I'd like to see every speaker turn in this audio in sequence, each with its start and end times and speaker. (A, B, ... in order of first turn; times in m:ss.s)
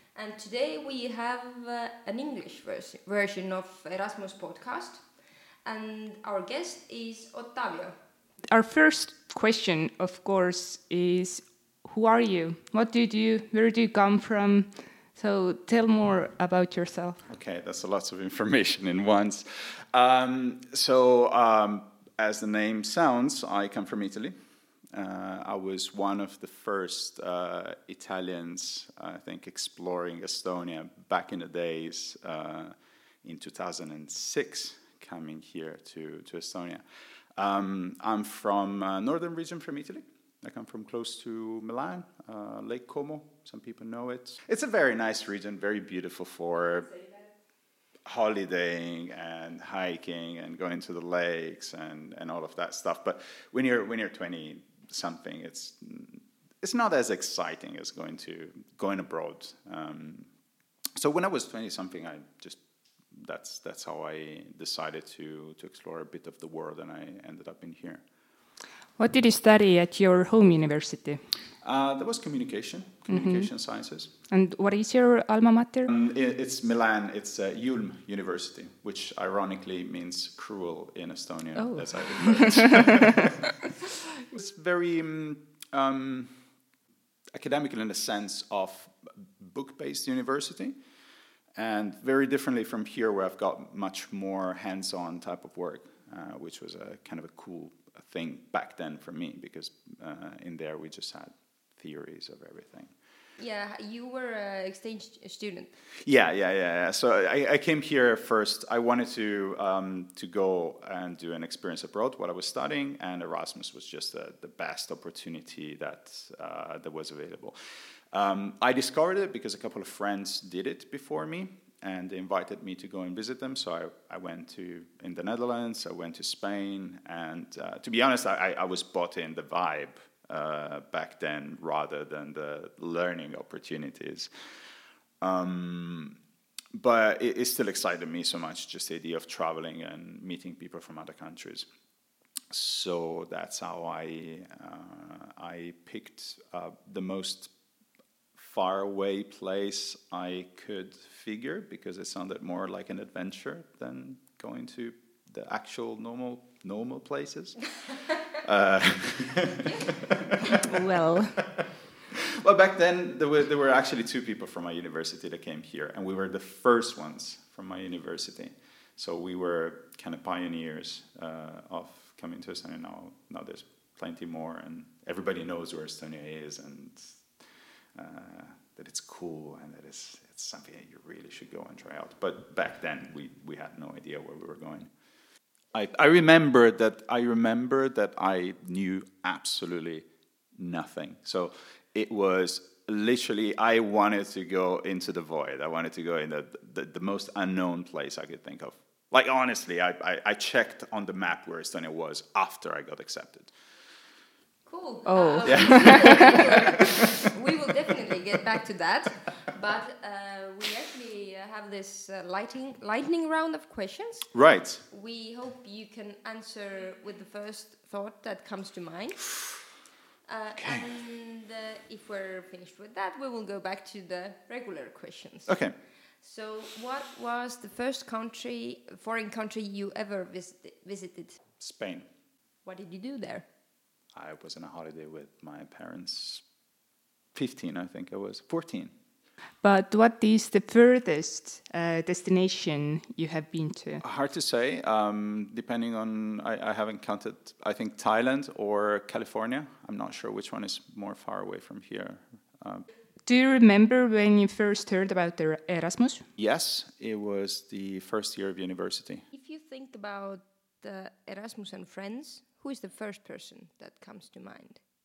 0:00.1-0:07.9 A
0:08.4-0:17.2 B
0:17.2-0:24.3 C
0:24.9-0:36.8 C
0:37.4-0:46.9 C
0:48.0-1:00.3 C
1:01.0-1:02.6 C
1:03.1-1:08.0 C
1:09.0-1:11.2 B
1:11.6-1:14.1 C
1:13.1-1:13.5 B
1:14.3-1:15.9 B
1:15.9-1:23.3 C
1:21.6-1:23.1 B
1:24.2-1:26.4 C
1:27.3-1:30.8 C
1:31.6-1:42.9 C
1:43.4-1:45.7 A
1:46.0-1:57.5 C
1:58.1-2:14.3 C
2:15.2-2:16.2 C
2:16.7-2:21.7 C
2:22.5-2:27.5 C
2:28.4-2:37.8 C
2:38.3-2:40.6 C
2:40.5-2:41.5 B
2:41.5-2:57.2 C
2:57.9-3:04.9 C
3:05.7-3:23.5 C
3:24.6-3:39.3 A
3:25.0-3:26.3 B
3:25.4-3:26.7 C
3:34.3-3:34.8 C
3:40.3-3:51.4 A
3:40.6-3:40.8 C
3:45.4-3:45.8 C
3:51.6-3:52.1 C
3:52.6-3:53.4 A
3:54.1-3:56.4 C
3:57.3-3:58.9 C
3:59.6-4:04.0 B
4:04.0-4:12.8 C
4:13.2-4:16.2 B
4:16.4-4:19.2 C
4:19.3-4:24.8 A